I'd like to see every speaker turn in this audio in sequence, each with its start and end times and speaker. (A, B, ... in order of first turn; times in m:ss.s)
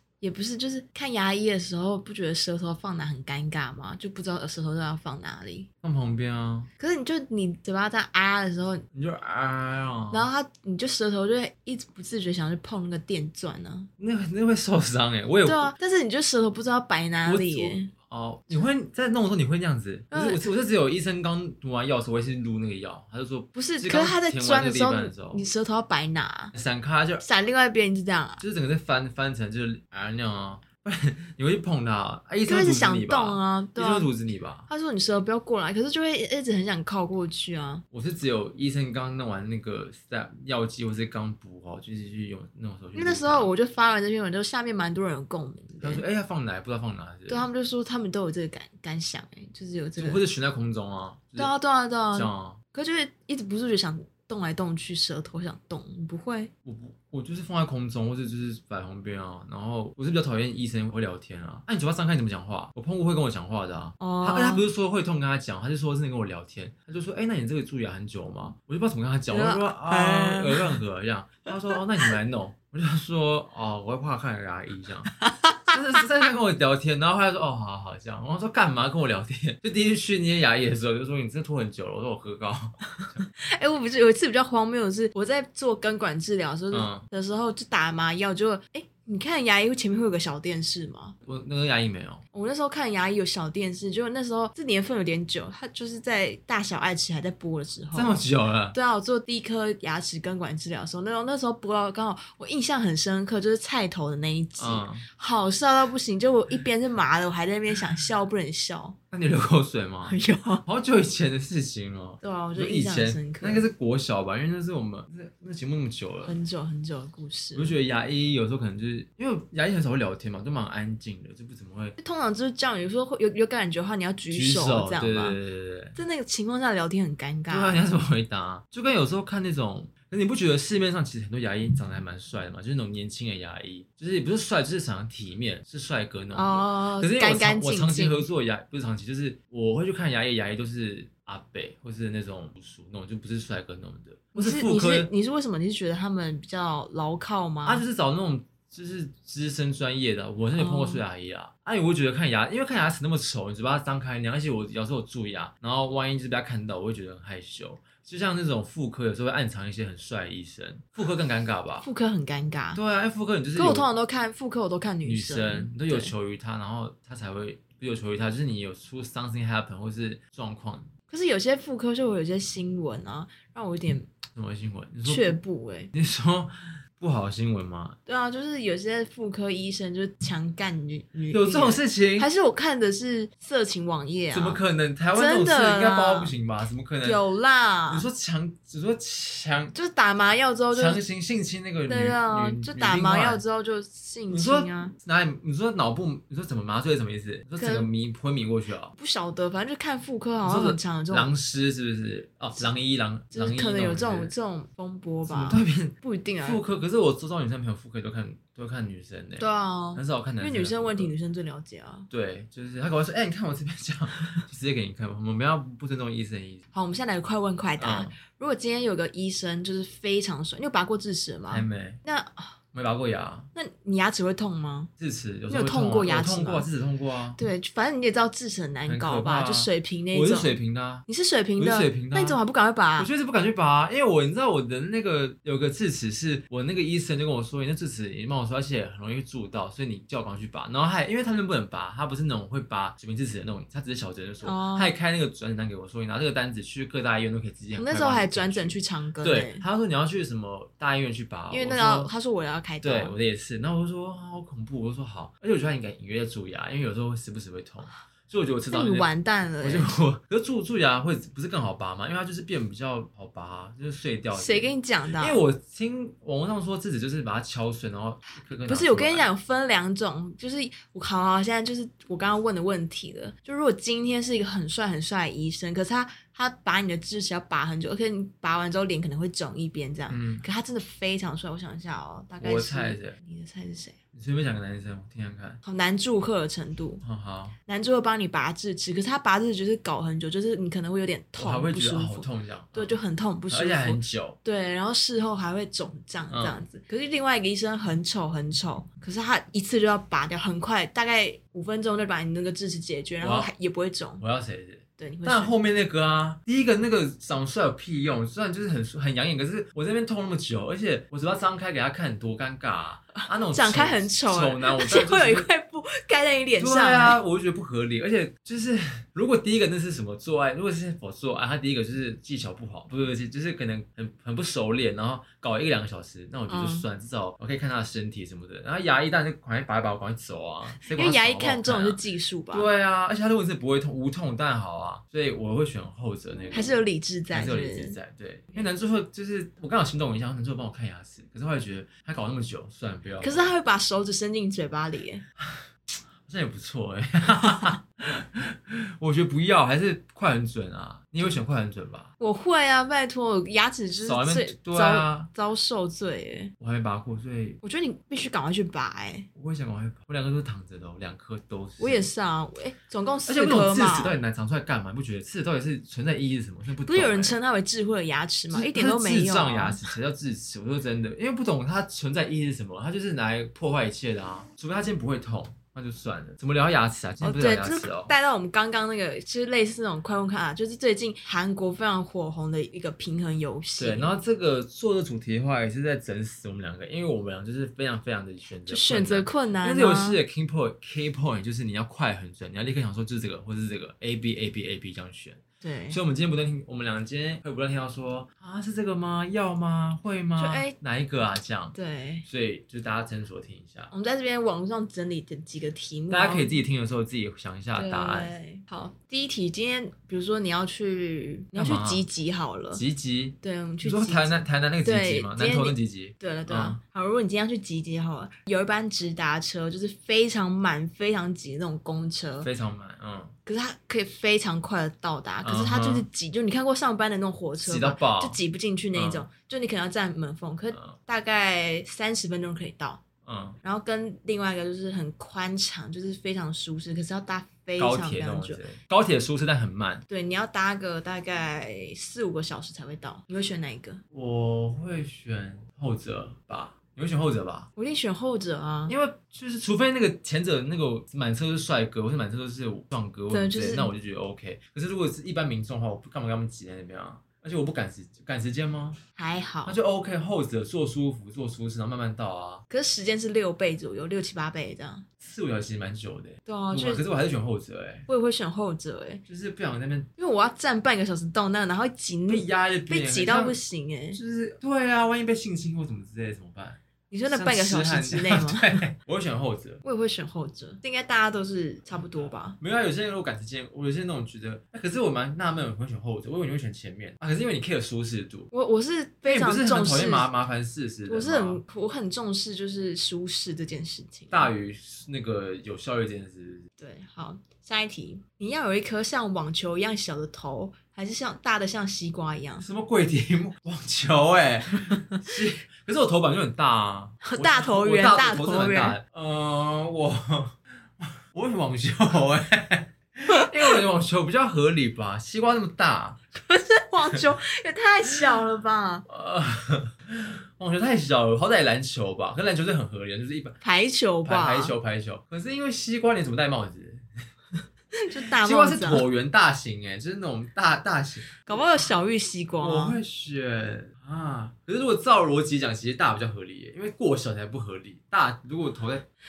0:00.2-0:05.7 A
0:05.8-0:06.7 B
0:06.8-0:08.8 A
0:08.9-0:10.3 B
0:10.1-0:13.9 A
0:14.0-0:15.7 B
0:15.4-0:17.9 A
0:17.2-0:25.4 B
0:20.1-0:20.4 A
0:23.5-0:26.5 A
0:26.5-0:27.2 B
0:27.2-0:28.4 A
0:28.4-0:34.7 B
0:32.4-0:34.1 A
0:34.7-0:37.8 A
0:37.9-0:43.5 B
0:42.9-0:46.0 A
0:45.8-0:47.5 B
0:47.3-0:50.2 A
0:50.0-0:51.5 B
0:51.4-0:56.5 A
0:52.1-0:52.6 B
0:56.6-1:15.2 B
1:04.0-1:04.6 A
1:09.3-1:10.8 A
1:11.7-1:12.1 A
1:15.2-1:15.7 A
1:15.7-1:23.2 B
1:23.4-1:31.2 A
1:26.7-1:27.0 B
1:31.2-1:32.2 B
1:32.3-1:38.2 A
1:37.9-1:38.8 B
1:38.7-1:49.0 A
1:44.6-1:45.0 B
1:49.1-1:56.4 B
1:50.1-1:50.6 A
1:52.2-1:53.7 A
1:56.2-1:57.8 A
1:57.5-2:02.0 B
2:02.0-2:05.4 A
2:04.3-2:06.0 B
2:06.0-2:07.8 A
2:07.5-2:25.1 B
2:16.3-2:18.2 A
2:24.3-2:27.8 A
2:27.6-2:41.9 B
2:30.6-2:31.0 A
2:41.8-2:42.8 A
2:42.7-2:43.9 B
2:43.5-2:46.1 A
2:45.0-2:50.9 B
2:51.1-2:54.1 A
2:54.3-2:55.4 B
2:55.0-2:55.9 A
2:55.9-2:58.0 B
2:58.0-3:04.6 A
3:01.3-3:02.3 B
3:04.3-3:07.2 B
3:05.1-3:06.3 A
3:07.0-3:08.1 A
3:07.9-3:09.7 B
3:09.7-3:11.0 A
3:10.7-3:13.4 B
3:11.9-3:14.9 A
3:14.3-3:18.9 B
3:17.6-3:17.9 A
3:19.0-3:21.3 A
3:20.4-3:24.3 B
3:23.3-3:26.6 A
3:25.2-3:31.1 B
3:29.4-3:32.1 A
3:32.1-3:36.6 B
3:36.7-3:42.5 A
3:37.8-3:38.2 B
3:41.5-3:42.0 B
3:42.7-3:43.5 B
3:43.5-3:44.9 A
3:45.0-3:47.4 B
3:45.5-3:46.7 A
3:47.4-3:50.5 A
3:48.8-3:51.0 B
3:51.1-3:53.1 A
3:51.6-3:52.4 B
3:53.0-4:12.1 B
4:04.4-4:04.9 A
4:07.8-4:09.6 A
4:11.5-4:13.2 A
4:12.8-4:19.1 B
4:18.7-4:19.9 A
4:19.6-4:29.3 B
4:24.3-4:25.4 A
4:28.6-4:44.0 A
4:40.1-4:40.4 B
4:42.4-4:43.2 B
4:44.1-4:45.6 B
4:45.6-4:47.0 A
4:47.0-4:47.6 B
4:47.6-5:04.2 A
4:51.4-4:53.0 B
4:53.5-4:54.4 B
4:56.3-4:56.6 B
5:03.2-5:03.5 B
5:04.2-5:15.5 B
5:05.0-5:05.5 A
5:13.2-5:17.2 A
5:16.6-5:32.0 B
5:26.5-5:26.9 A
5:30.8-5:32.7 A
5:32.5-5:36.8 B
5:36.5-5:38.0 A
5:37.3-5:43.5 B
5:43.2-5:45.2 A
5:46.2-5:52.1 B
5:47.4-5:47.7 A
5:52.2-5:56.5 A
5:54.0-5:55.3 B
5:56.6-5:57.6 B
5:57.6-5:59.3 A
5:59.3-6:02.1 B
6:01.8-6:04.2 A
6:03.3-6:07.4 B
6:06.8-6:09.8 A
6:08.5-6:18.1 B
6:17.2-6:24.1 A
6:23.8-6:43.9 B
6:28.7-6:30.2 A
6:35.6-6:36.0 A
6:40.4-6:40.8 A
6:41.7-6:42.2 A
6:43.9-6:46.6 A
6:46.1-6:48.3 B
6:47.7-6:52.8 A
6:51.5-6:52.0 B
6:52.7-6:56.8 B
6:53.4-7:02.5 A
7:02.4-7:03.3 B
7:03.4-7:13.0 A
7:05.4-7:06.1 B
7:07.6-7:08.4 B
7:08.9-7:09.2 B
7:10.7-7:11.0 B
7:13.2-7:13.6 B
7:13.6-7:18.6 A
7:17.8-7:20.0 B
7:20.1-7:24.0 A
7:24.1-7:27.7 B
7:27.8-7:28.9 A
7:28.9-7:39.0 B
7:33.3-7:33.9 A
7:39.2-7:39.8 A
7:39.6-7:42.6 B
7:42.7-7:45.0 A
7:45.2-7:48.1 B
7:46.4-7:47.0 A
7:48.1-7:49.2 A
7:49.3-7:50.1 B
7:50.2-7:54.2 A
7:52.3-7:53.6 B
7:54.1-7:59.8 B
7:57.1-7:58.8 A
7:59.8-8:02.6 A
8:02.2-8:08.5 B
8:08.5-8:10.3 A
8:09.2-8:11.6 B
8:11.1-8:14.5 A
8:14.3-8:16.7 B
8:16.8-8:22.6 A
8:22.6-8:36.2 B
8:27.2-8:29.0 A
8:36.3-8:39.0 A
8:39.1-8:43.6 B
8:43.6-8:44.7 A
8:44.2-8:47.0 B
8:47.9-8:49.0 A
8:48.4-8:51.4 B
8:51.4-8:53.0 A
8:52.6-8:59.0 B